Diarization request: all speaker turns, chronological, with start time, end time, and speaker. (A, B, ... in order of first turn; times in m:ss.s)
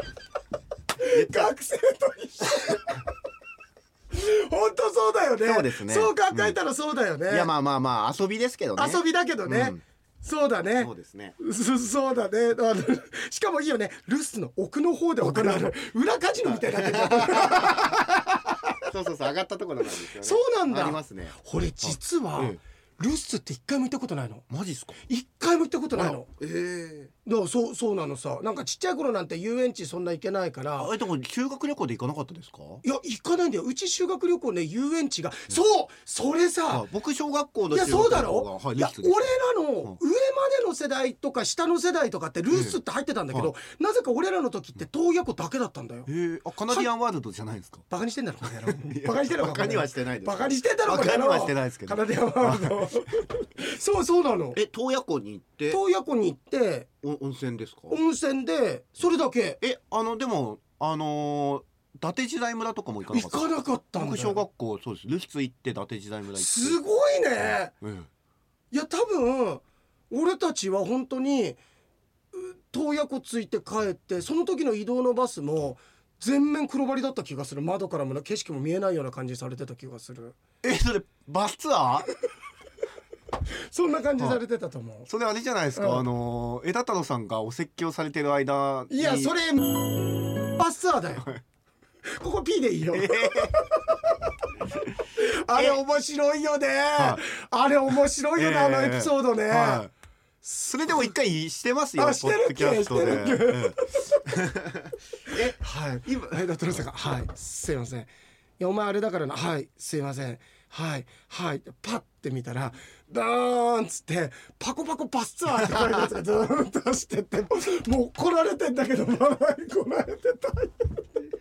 0:01.0-0:03.0 A
0:01.0-0:01.5 B
0:04.1-0:07.5 A
0:05.4-0:06.6 B
0:07.3-0:09.8 B
0:08.8-0:18.1 A
0:10.8-0:11.4 B
0:15.2-0:15.7 B
0:16.4-0:22.6 B
0:20.2-0:24.4 A
0:24.5-0:25.0 B
0:25.1-0:26.3 A
0:25.9-0:27.1 B
0:27.2-0:30.9 A
0:30.8-0:32.8 B
0:32.8-0:36.9 A
0:36.7-0:39.3 B
0:37.7-0:46.1 A
0:42.5-0:42.8 B
0:46.1-0:47.8 B
0:47.9-0:54.6 A
0:48.4-0:52.9 B
0:54.6-0:55.8 B
0:55.7-0:56.9 A
0:57.0-0:58.0 B
0:57.9-0:59.6 A
0:59.6-1:06.8 B
1:03.1-1:04.4 A
1:06.4-1:07.7 A
1:07.4-1:08.1 B
1:08.7-1:11.6 A
1:12.3-1:20.4 A
1:20.6-1:22.1 B
1:23.7-1:25.1 A
1:25.1-1:29.3 B
1:25.8-1:26.0 A
1:28.9-1:31.3 A
1:32.1-1:34.1 A
1:32.9-1:33.6 B
1:35.1-1:39.8 A
1:35.5-1:35.8 B
1:37.0-1:37.2 B
1:38.4-1:39.9 B
1:40.4-1:41.1 A
1:40.7-1:46.9 B
1:42.0-1:44.3 A
1:45.3-2:00.9 A